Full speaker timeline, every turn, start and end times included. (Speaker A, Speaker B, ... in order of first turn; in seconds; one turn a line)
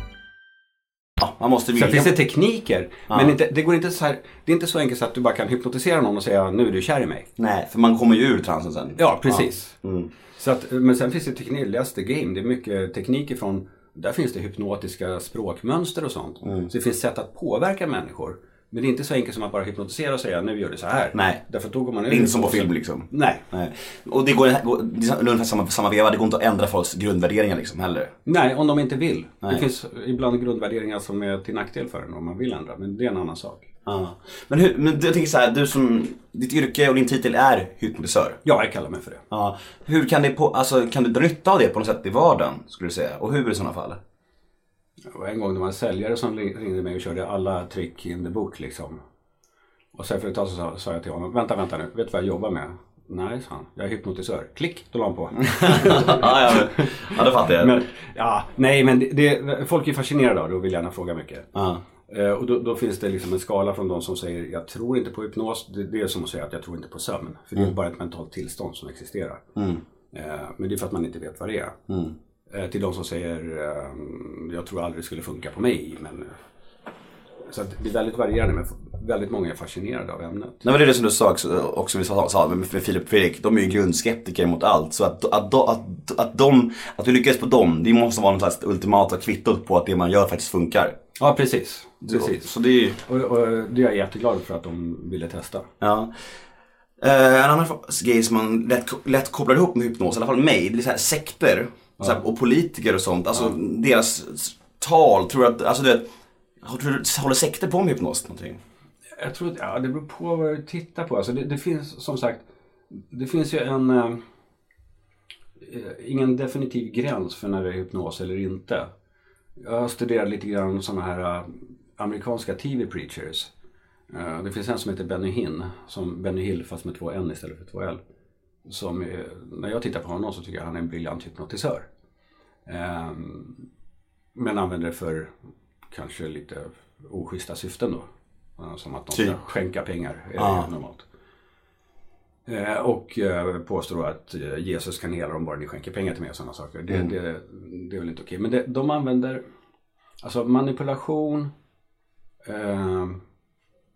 Speaker A: 1.2-2.1
Speaker B: 1.8-7.3
Speaker A: 7.4-10.1
Speaker B: 9.0-9.8
Speaker B: 10.4-23.4
Speaker A: 16.4-16.7
Speaker A: 21.1-21.4
Speaker A: 22.1-28.1
Speaker B: 28.3-33.7
Speaker A: 33.9-38.4
Speaker B: 38.5-39.2
Speaker A: 39.3-44.0
Speaker B: 45.1-49.0
Speaker B: 50.0-61.5
Speaker A: 55.5-57.8
Speaker A: 61.5-61.8
Speaker B: 62.1-69.4
Speaker A: 69.6-69.8
Speaker B: 70.1-71.8
Speaker A: 71.9-72.2
Speaker B: 72.5-76.4
Speaker B: 77.5-80.7
Speaker A: 80.6-91.0
Speaker B: 91.2-92.5
Speaker A: 92.0-93.0
Speaker B: 93.0-95.7
Speaker A: 95.8-96.1
Speaker A: 97.0-106.1
Speaker A: 106.6-108.6
Speaker B: 109.2-114.2
Speaker B: 115.6-118.9
Speaker B: 119.6-123.5
Speaker B: 124.1-128.0
Speaker B: 128.7-131.9
Speaker B: 132.7-133.6
Speaker B: 134.3-135.3
Speaker B: 135.9-141.1
Speaker A: 139.1-139.4
Speaker A: 140.4-140.7
Speaker B: 142.5-149.4
Speaker B: 150.2-151.5
Speaker B: 152.4-153.2